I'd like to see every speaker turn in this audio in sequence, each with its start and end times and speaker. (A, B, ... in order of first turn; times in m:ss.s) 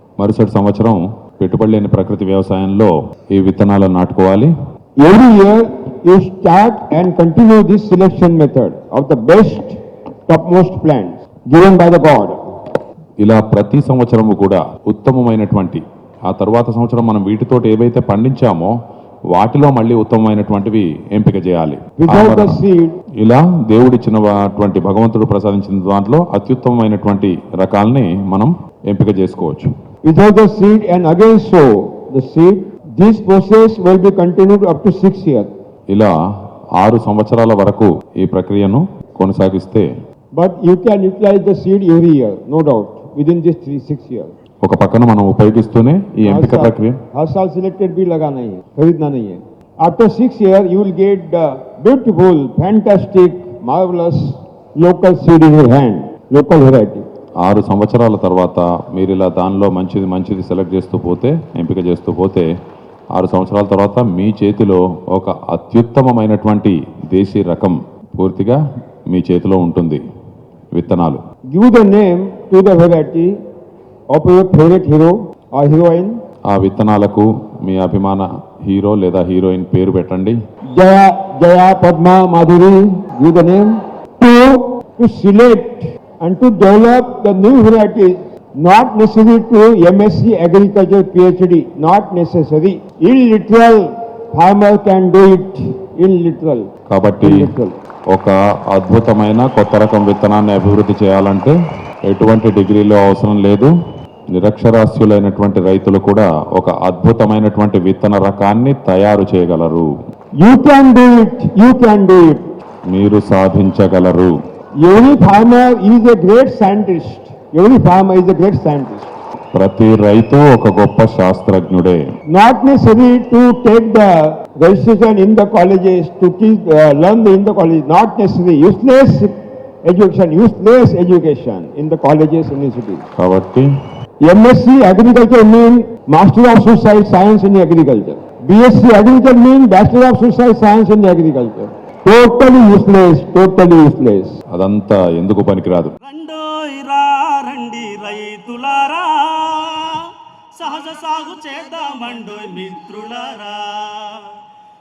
0:00.2-0:04.5 A
0:05.0-0:12.4 B
0:13.2-0:18.7 A
0:19.3-0:22.5 A
0:22.0-0:23.0 B
0:23.2-0:29.7 A
0:30.0-0:35.5 B
0:36.8-0:39.9 A
0:40.3-0:44.3 B
0:44.6-0:47.0 A
0:46.2-0:57.0 B
0:57.4-1:02.5 A
1:03.1-1:10.0 A
1:10.7-1:11.2 A
1:11.5-1:13.4 B
1:14.1-1:16.2 B
1:16.5-1:20.4 A
1:20.7-1:36.7 B
1:36.9-1:37.5 A
1:37.2-1:37.8 B
1:38.1-1:43.7 A
1:44.4-1:49.9 A
1:50.4-1:52.6 B
1:52.9-1:54.3 A
1:54.8-1:59.1 B
1:59.5-2:02.0 A
2:02.3-2:13.0 B
2:13.2-2:13.7 A
2:14.2-2:24.4 B
2:24.5-2:25.9 A
2:26.0-2:34.4 C